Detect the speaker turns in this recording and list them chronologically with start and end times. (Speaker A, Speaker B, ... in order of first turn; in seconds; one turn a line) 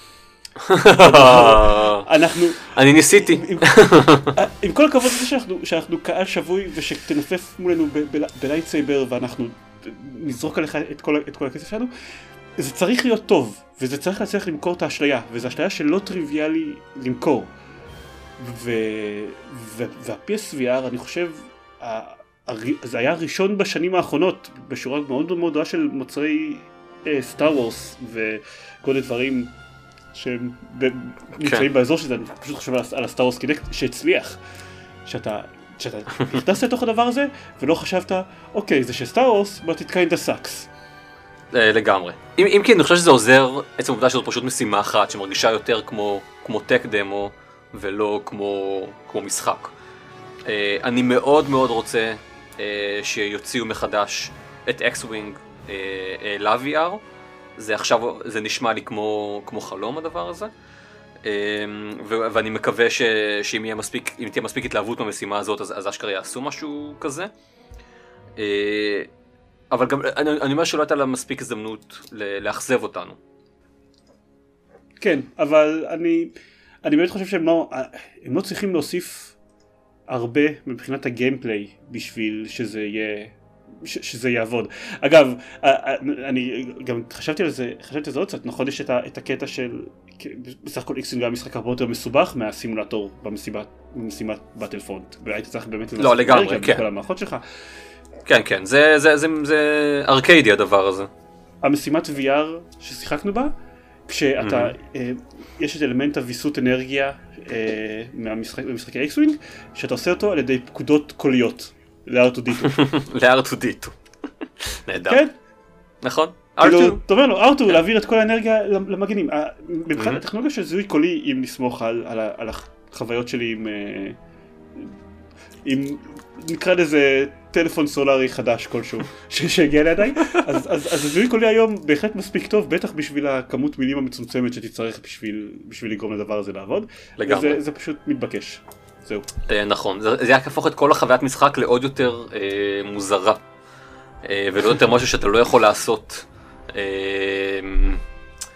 Speaker A: 0.6-2.1
Speaker B: 0.9-11.9
Speaker A: 2.6-4.3
Speaker B: 12.6-17.5
Speaker B: 18.4-29.5
Speaker B: 30.1-34.4
Speaker A: 31.4-31.6
Speaker B: 35.0-40.7
Speaker A: 41.5-49.7
Speaker A: 50.5-57.0
Speaker A: 57.5-60.5
Speaker A: 61.2-67.3
Speaker A: 68.4-69.1
Speaker A: 69.7-73.2
Speaker B: 75.0-76.3
Speaker B: 76.8-79.3
Speaker B: 80.1-97.4
Speaker A: 96.0-96.9
Speaker A: 98.2-101.1
Speaker B: 101.6-103.5
Speaker B: 104.1-112.8
Speaker A: 104.4-104.7
Speaker A: 112.6-113.9
Speaker A: 114.6-115.2
Speaker B: 115.1-115.3
Speaker A: 116.0-117.0
Speaker B: 116.6-124.2
Speaker B: 125.7-139.3
Speaker A: 137.2-137.6
Speaker A: 139.5-143.4
Speaker A: 144.2-148.0